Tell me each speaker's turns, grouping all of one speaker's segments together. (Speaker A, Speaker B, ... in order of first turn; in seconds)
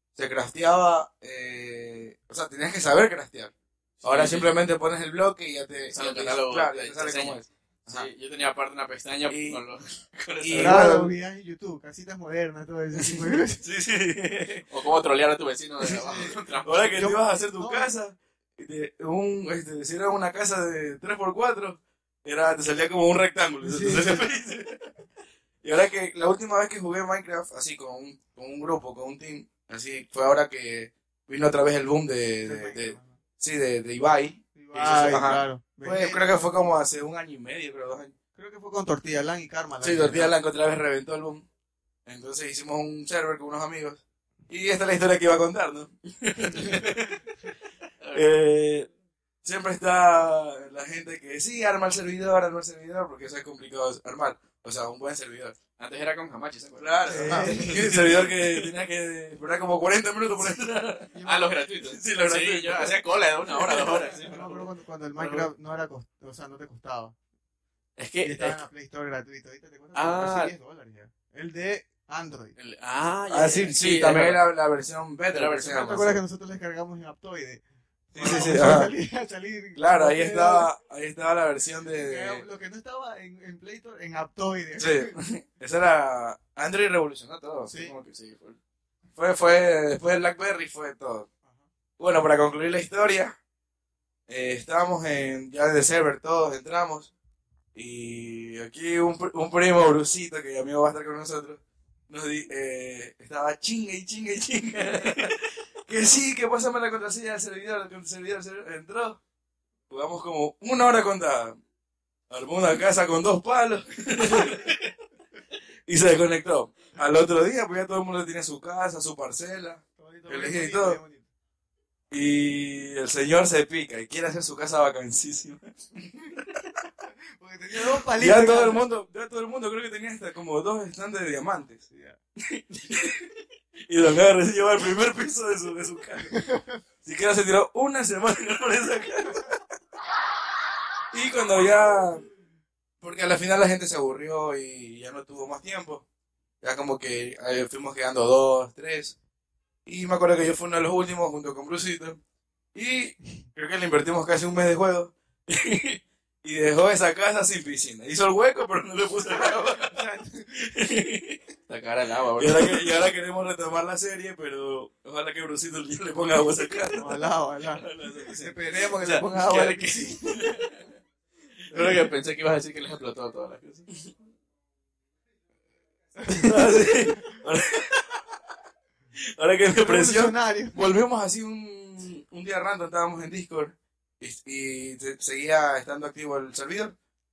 Speaker A: 0.1-3.5, 4.0-8.1, 9.3-9.6, 10.4-11.1, 13.0-14.7, 16.6-24.9, 25.6-38.1, 39.8-41.5, 42.0-47.2, 48.1-48.9, 49.4-55.6, 56.8-61.1, 61.8-64.0, 73.3-76.2, 78.2-78.9, 79.8-82.4, 84.8-87.7, 89.2-91.3, 92.0-93.4, 94.3-97.1, 97.7-109.2, 109.9-111.6, 112.3-114.8, 115.9-121.0, 122.1-125.8, 126.4-126.6, 127.7-131.8, 132.5-133.3, 133.9-136.4, 137.0-139.6, 141.1-142.2, 143.0-146.0, 146.6-149.2, 149.8-152.2, 152.7-160.0, 160.5-161.4, 162.4-168.7, 171.7-172.0, 176.3-178.3, 179.1-186.9
Speaker B: 4.0-4.6, 5.9-10.9, 14.7-17.0, 46.6-46.9, 48.0-48.2, 55.8-58.3, 61.2-65.5, 68.0-68.6, 69.9-70.5, 72.5-74.4, 75.3-75.9, 87.8-88.6, 161.7-163.0, 168.8-170.4, 171.7-173.9
Speaker C: 10.5-13.6, 15.9-17.9, 23.6-24.3, 32.4-33.2, 34.5-36.5, 38.3-40.3, 57.1-58.3, 61.1-61.5, 64.2-67.1, 68.2-72.5, 75.6-77.6, 78.1-80.7, 82.0-85.1, 87.7-87.9, 120.0-121.2, 127.4-128.9, 131.9-132.2, 136.3-136.8, 159.3-160.7, 166.9-170.6, 176.2-177.4, 179.7-180.9